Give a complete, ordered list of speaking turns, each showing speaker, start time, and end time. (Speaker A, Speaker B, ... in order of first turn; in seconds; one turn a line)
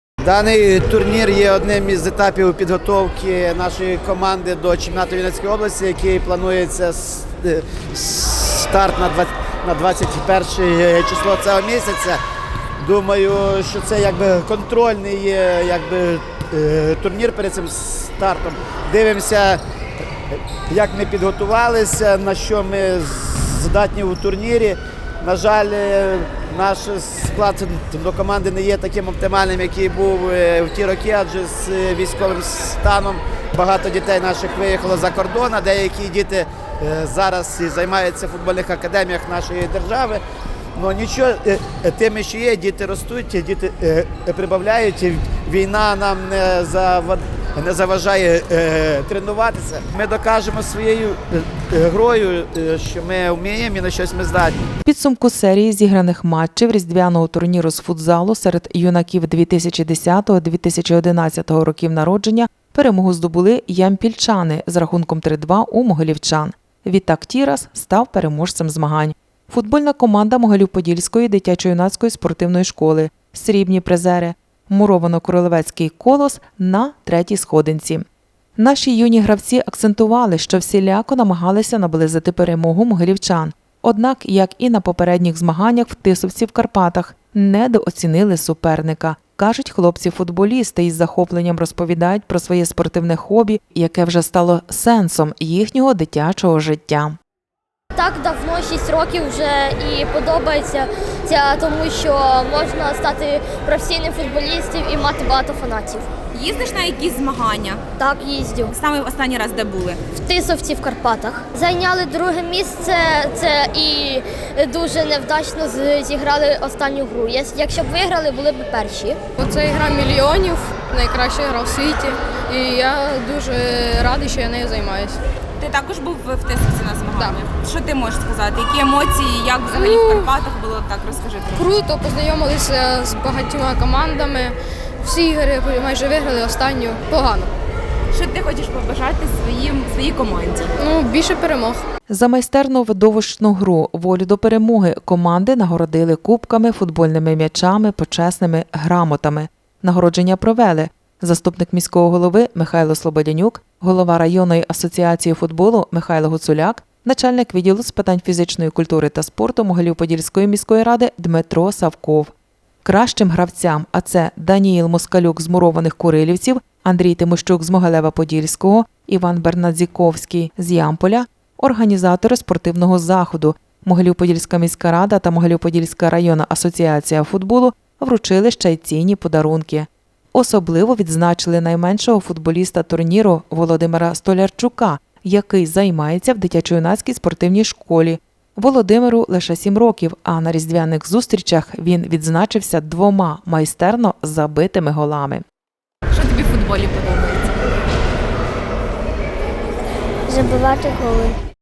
Speaker A: 0.2-12.2
Speaker A: 12.8-19.6
Speaker A: 20.3-40.2
Speaker A: 40.8-54.6
Speaker B: 54.9-78.1
Speaker B: 78.6-97.2
Speaker C: 98.0-106.1
Speaker D: 106.3-107.8
Speaker C: 108.0-108.7
Speaker D: 108.7-110.0
Speaker C: 110.1-119.2
Speaker E: 119.4-125.2
Speaker D: 125.6-131.7
Speaker E: 129.7-130.3
Speaker E: 131.6-137.5
Speaker D: 138.1-140.7
Speaker E: 140.8-141.8
Speaker B: 142.1-162.3
Speaker B: 162.8-195.4
Speaker D: 196.1-197.7
Speaker C: 200.3-201.3